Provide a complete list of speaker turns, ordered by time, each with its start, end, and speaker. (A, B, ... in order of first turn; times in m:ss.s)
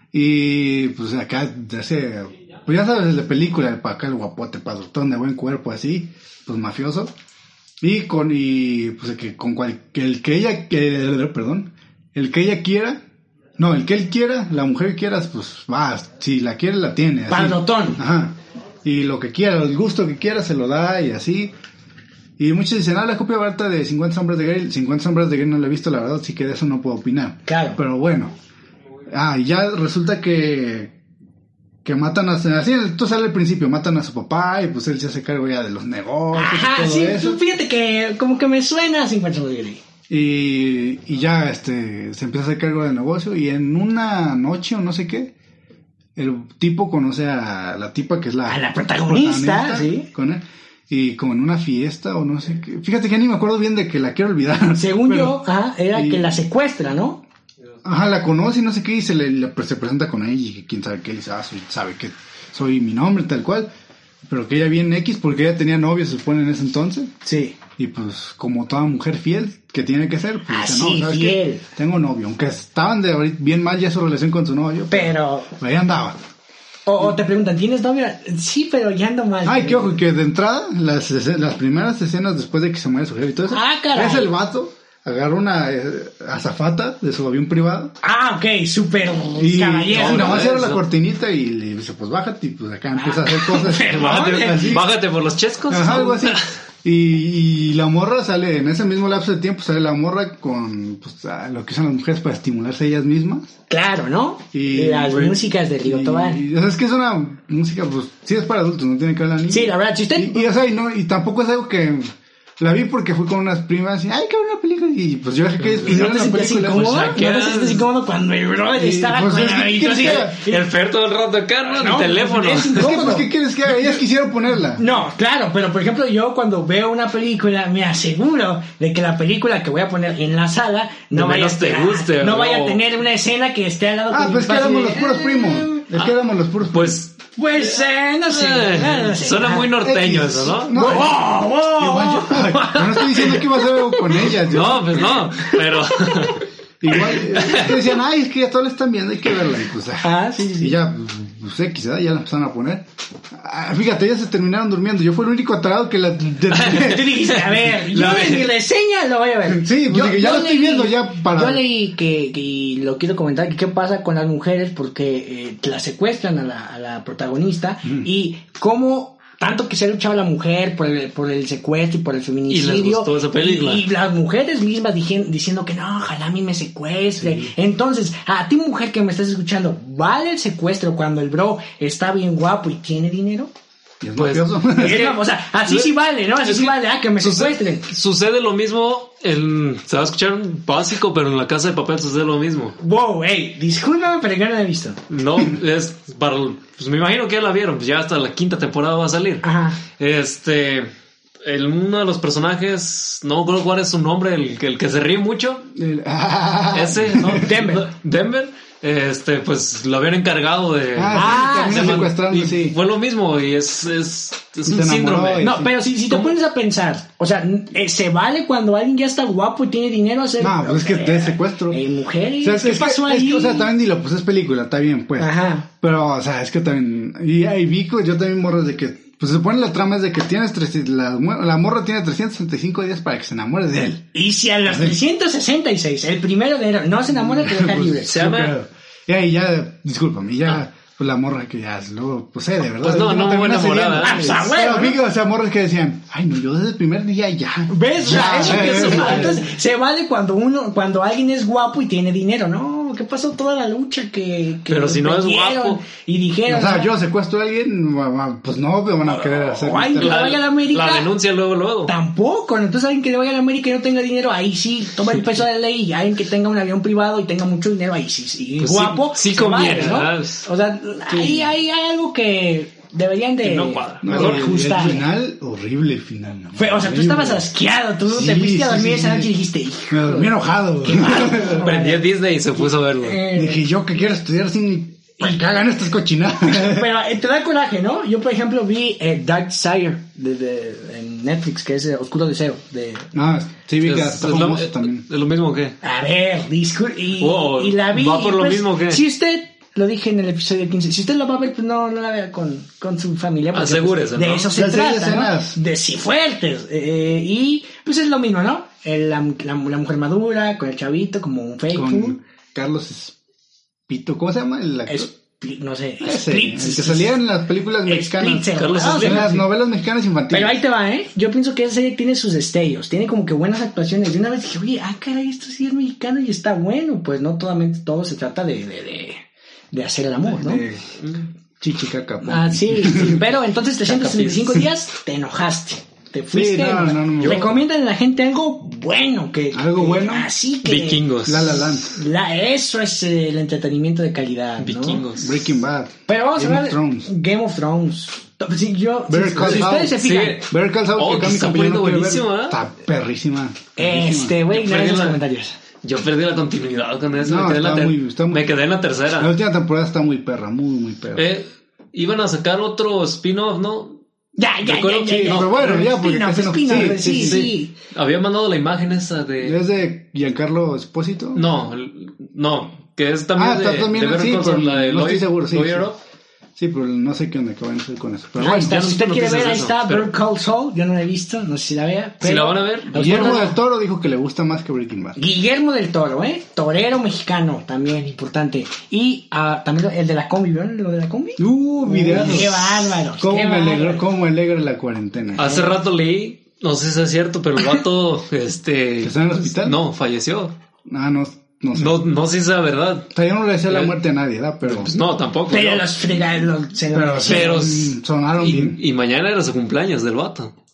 0:00.1-0:07.1 A
0:07.8-0:13.0 A
0:13.6-0:21.5 A
0:17.3-0:18.0 B
0:22.4-0:28.3 A
0:27.5-0:27.8 B
0:29.1-0:31.0 A
0:31.8-0:37.4 A
0:36.3-0:39.8 B
0:40.1-0:45.3 A
0:46.2-0:56.4 A
0:48.5-0:50.1 B
0:54.8-0:57.2 B
0:57.8-1:03.7 A
1:04.3-1:07.1 A
1:07.2-1:07.6 B
1:07.8-1:16.2 A
1:10.5-1:11.6 B
1:14.9-1:15.5 B
1:16.9-1:20.0 B
1:19.4-1:28.0 A
1:23.5-1:24.3 B
1:28.0-1:30.5 B
1:29.4-1:34.9 A
1:29.9-1:30.8 C
1:33.0-1:34.8 B
1:33.8-1:36.5 C
1:35.7-1:43.5 A
1:43.7-1:46.4 B
1:44.5-1:57.2 A
1:49.5-1:50.5 B
1:55.6-1:55.9 C
1:55.8-2:00.6 B
1:56.8-1:57.8 C
1:58.7-2:00.4 A
2:00.0-2:02.9 C
2:01.7-2:03.3 B
2:02.8-2:04.8 A
2:04.8-2:15.8 B
2:11.1-2:12.8 C
2:14.1-2:17.0 A
2:16.7-2:17.2 C
2:17.4-2:19.7 B
2:18.3-2:20.8 C
2:19.8-2:21.2 A
2:20.7-2:24.3 B
2:21.8-2:25.2 A
2:24.3-2:27.8 C
2:25.4-2:26.1 B
2:26.8-2:37.2 A
2:30.0-2:30.8 B
2:36.5-2:38.5 C
2:36.7-3:03.5 B
2:39.5-2:41.6 A
2:52.5-2:53.9 C
2:57.2-2:57.5 A
3:04.0-3:05.1 A
3:04.2-3:05.9 C
3:04.8-3:07.9 B
3:06.4-3:12.8 C
3:12.8-3:15.0 B
3:15.1-3:20.9 C
3:19.4-3:19.8 B
3:21.4-3:25.6 C
3:25.8-3:27.5 A
3:26.7-3:35.5 C
3:27.4-3:27.9 B
3:31.0-3:32.8 A
3:31.1-3:32.1 B
3:34.6-3:35.7 A
3:35.4-3:43.7 B
3:36.1-3:36.3 C
3:40.4-3:41.8 A
3:42.4-3:54.1 A
3:45.2-3:45.7 B
3:54.1-3:58.2 B
3:54.7-3:55.0 A
3:57.1-4:09.4 A
3:58.1-3:58.5 C
4:02.8-4:04.4 C
4:04.0-4:05.0 B
4:07.7-4:16.9 B
4:08.1-4:09.4 C
4:14.7-4:15.8 C
4:16.5-4:20.4 A
4:19.1-4:21.1 B
4:20.0-4:21.9 C
4:21.9-4:35.0 B
4:28.6-4:30.5 C
4:33.4-4:34.5 C
4:34.0-4:37.5 A
4:36.6-4:42.1 B
4:38.1-4:39.3 A
4:39.9-4:41.7 A
4:41.4-4:43.2 C
4:42.6-4:43.7 B
4:43.3-4:46.9 A
4:45.2-4:45.6 B
4:46.5-4:53.1 B
4:53.1-4:55.0 A
4:53.8-4:55.8 C
4:55.8-5:12.2 B
4:57.2-4:59.0 C
5:03.5-5:04.5 C
5:04.5-5:05.6 A
5:11.7-5:13.2 A
5:13.9-5:15.1 A
5:14.9-5:17.2 B
5:16.0-5:20.6 A
5:17.8-5:19.5 B
5:18.5-5:19.4 C
5:20.3-5:30.6 B
5:30.2-5:31.0 A
5:31.6-5:33.3 A
5:32.2-5:41.0 B
5:33.9-5:34.5 C
5:36.3-5:37.6 A
5:37.2-5:37.5 C
5:39.5-5:40.3 A
5:40.6-5:41.6 C
5:41.2-5:42.0 A
5:41.9-5:45.0 B
5:44.6-5:45.5 C
5:45.2-5:47.1 A
5:46.1-5:50.4 B
5:49.1-5:54.4 A
5:49.5-5:52.6 C
5:53.8-5:55.6 B
5:54.5-5:55.2 C
5:55.8-5:59.3 C
5:57.2-5:58.5 A
5:59.1-6:01.2 A
6:01.2-6:04.0 C
6:04.4-6:07.7 B
6:04.6-6:05.8 C
6:05.1-6:07.5 A
6:07.1-6:09.6 C
6:09.4-6:11.4 A
6:11.4-6:16.0 C
6:13.4-6:15.9 A
6:16.6-6:18.8 A
6:18.4-6:23.6 B
6:18.4-6:20.1 C
6:22.2-6:23.5 C
6:23.0-6:25.2 A
6:25.2-6:34.0 B
6:31.4-6:35.5 A
6:32.1-6:32.5 C
6:35.4-6:40.5 C
6:35.4-6:35.7 B
6:39.0-6:39.8 A
6:40.9-6:42.0 A
6:41.7-6:43.1 C
6:43.1-6:44.9 A
6:43.7-6:44.0 C
6:44.6-6:45.9 C
6:45.5-6:47.6 B
6:46.9-6:48.8 A
6:47.2-6:50.5 C